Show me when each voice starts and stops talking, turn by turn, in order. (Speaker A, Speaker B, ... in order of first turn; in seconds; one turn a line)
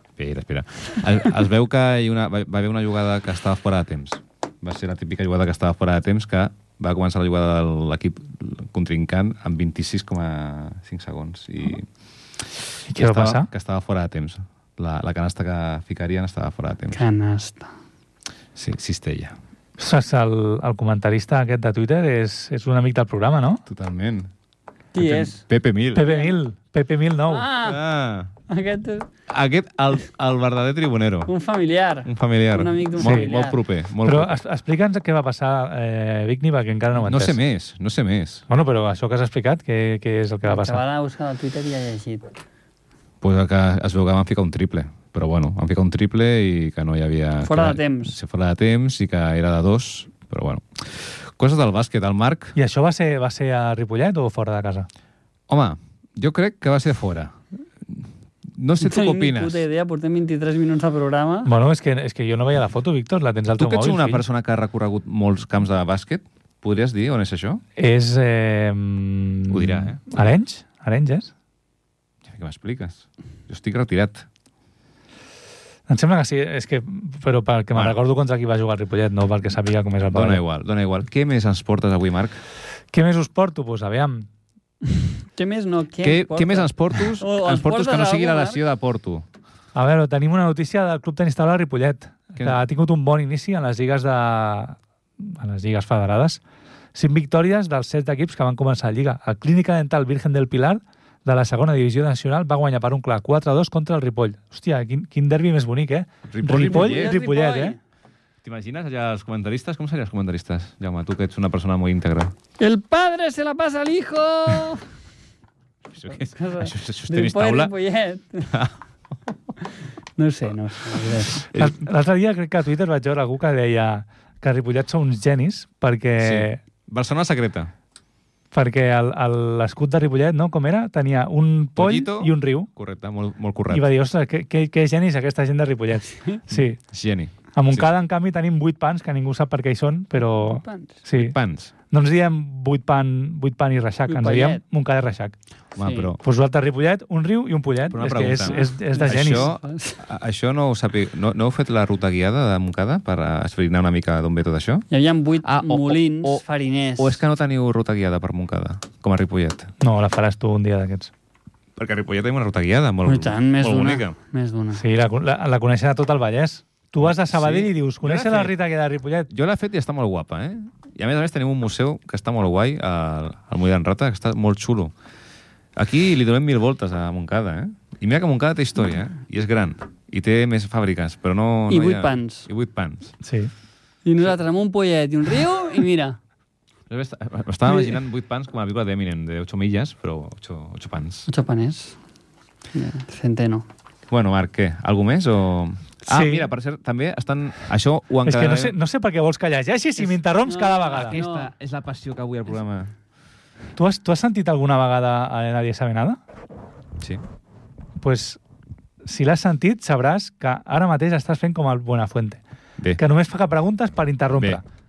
Speaker A: 0.2-17.0
Speaker B: 12.9-13.5
Speaker C: 16.9-17.7
Speaker A: 18.5-19.4
Speaker B: 19.8-23.6
Speaker A: 23.6-24.3
Speaker C: 24.9-25.4
Speaker A: 24.9-26.0
Speaker C: 25.9-26.4
Speaker B: 25.9-27.5
Speaker C: 27.3-27.8
Speaker A: 27.6-28.3
Speaker C: 28.5-29.1
Speaker A: 29.3-31.3
Speaker C: 31.3-33.6
Speaker A: 32.0-34.4
Speaker B: 33.0-33.3
Speaker B: 34.0-37.4
Speaker A: 37.0-38.5
Speaker B: 38.5-40.8
Speaker C: 40.4-42.3
Speaker A: 43.2-52.5
Speaker C: 47.4-48.2
Speaker B: 52.5-54.9
Speaker A: 55.5-59.6
Speaker C: 58.8-61.5
Speaker B: 61.5-64.2
Speaker A: 63.6-67.6
Speaker B: 67.8-71.3
Speaker A: 69.5-70.0
Speaker A: 72.2-74.3
Speaker B: 75.9-80.4
Speaker A: 80.1-82.4
Speaker B: 82.9-84.3
Speaker C: 85.3-88.6
Speaker A: 86.0-89.2
Speaker B: 89.7-96.4
Speaker B: 96.9-107.8
Speaker A: 106.3-107.1
Speaker C: 106.5-107.8
Speaker A: 108.4-112.3
Speaker C: 112.6-114.8
Speaker A: 115.9-117.7
Speaker C: 116.1-118.5
Speaker C: 120.2-121.4
Speaker A: 121.3-121.8
Speaker B: 121.5-126.6
Speaker A: 126.2-127.7
Speaker B: 128.5-132.7
Speaker A: 131.8-133.9
Speaker B: 133.7-136.8
Speaker A: 136.5-137.9
Speaker B: 137.5-141.3
Speaker C: 140.4-141.0
Speaker A: 141.1-141.7
Speaker B: 141.9-145.3
Speaker C: 144.1-144.6
Speaker A: 145.8-146.2
Speaker C: 145.8-146.1
Speaker B: 146.2-149.5
Speaker A: 147.9-154.8
Speaker C: 148.4-150.0
Speaker C: 154.9-157.2
Speaker A: 155.4-156.4
Speaker A: 157.0-159.7
Speaker B: 159.8-161.1
Speaker A: 161.8-164.2
Speaker C: 163.1-164.8
Speaker B: 164.8-169.3
Speaker A: 167.0-168.5
Speaker A: 169.3-174.9
Speaker A: 175.8-183.2
Speaker C: 181.7-182.5
Speaker B: 183.2-183.5
Speaker C: 184.0-186.2
Speaker A: 186.9-191.3
Speaker C: 187.7-187.9
Speaker C: 191.3-192.0
Speaker C: 192.7-193.7
Speaker A: 194.1-198.8
Speaker B: 196.1-196.5
Speaker B: 198.2-201.2
Speaker C: 200.0-201.5
Speaker A: 200.9-202.9
Speaker B: 203.8-206.2
Speaker B: 208.0-208.4
Speaker B: 209.0-212.4
Speaker B: 213.0-214.6